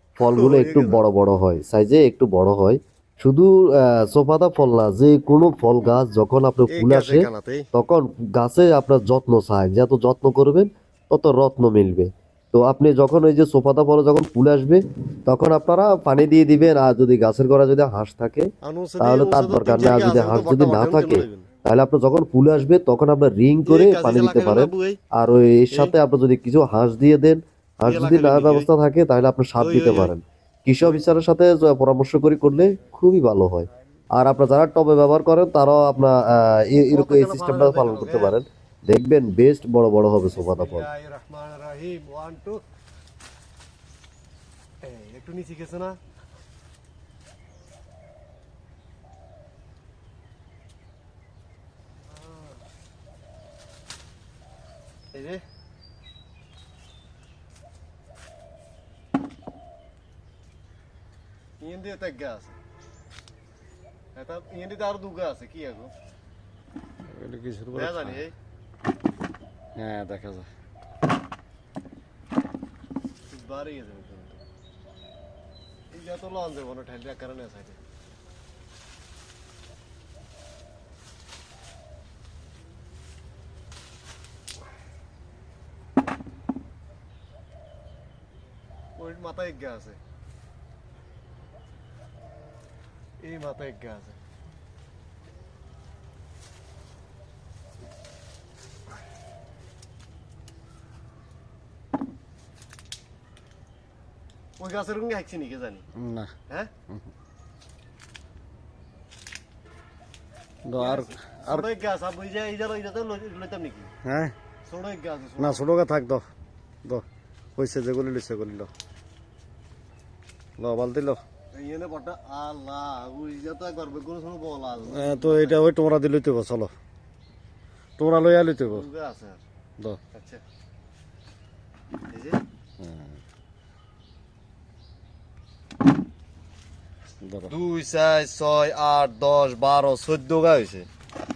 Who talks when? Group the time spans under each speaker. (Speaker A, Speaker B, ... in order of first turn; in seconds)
Speaker A: 0.2-18.5, 19.0-40.9
Speaker B: 0.3-1.0, 6.7-7.7, 18.6-21.5, 23.6-25.0, 27.9-28.7, 29.6-30.1, 36.9-38.4, 40.4-42.6, 44.8-46.0, 52.1-52.6, 55.1-55.4, 61.6-62.6, 64.2-65.9, 67.7-68.3, 73.3-74.4, 75.9-77.8, 89.0-90.0, 93.2-94.2, 104.6-105.8, 110.8-113.9, 114.7-115.7, 121.5-125.7, 128.7-129.4, 130.1-130.4, 132.1-132.4, 137.5-140.9
Speaker C: 67.1-68.2, 69.8-70.5, 106.0-106.3, 110.7-111.7, 114.0-114.3, 115.4-116.2, 117.6-118.7, 120.6-121.2, 124.9-126.7, 128.0-128.9, 132.8-133.2, 137.2-137.5